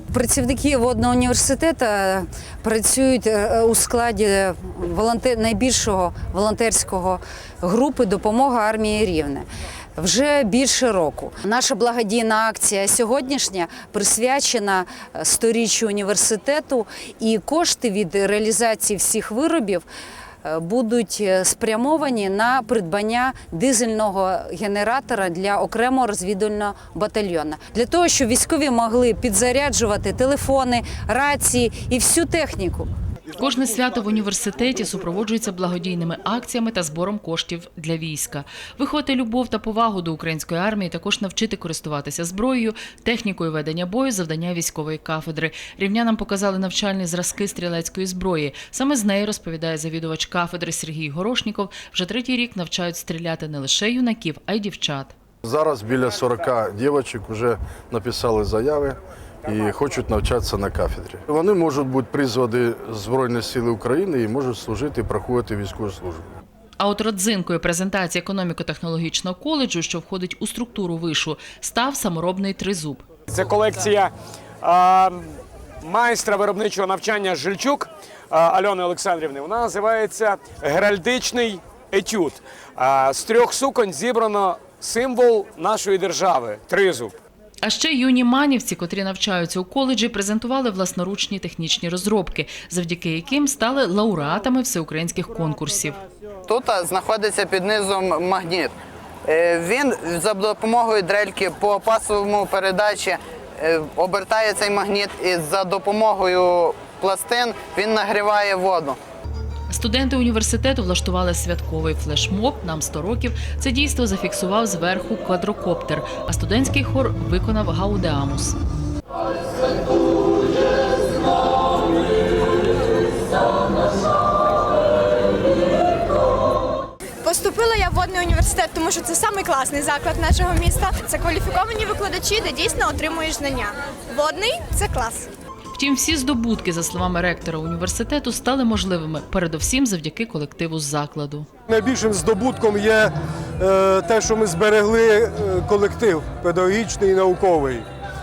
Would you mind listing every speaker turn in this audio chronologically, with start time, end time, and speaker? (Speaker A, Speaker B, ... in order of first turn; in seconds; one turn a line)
Speaker A: 0.1-9.4
Speaker A: 10.0-19.9
Speaker A: 20.4-32.9
Speaker B: 33.4-55.1
Speaker C: 55.4-66.2
Speaker B: 66.8-73.0
Speaker D: 73.3-87.1
Speaker B: 87.6-96.0
Speaker E: 96.5-98.7
Speaker E: 99.2-109.0
Speaker B: 109.7-118.6
Speaker F: 127.2-135.3
Speaker B: 135.7-141.5
Speaker G: 141.7-147.8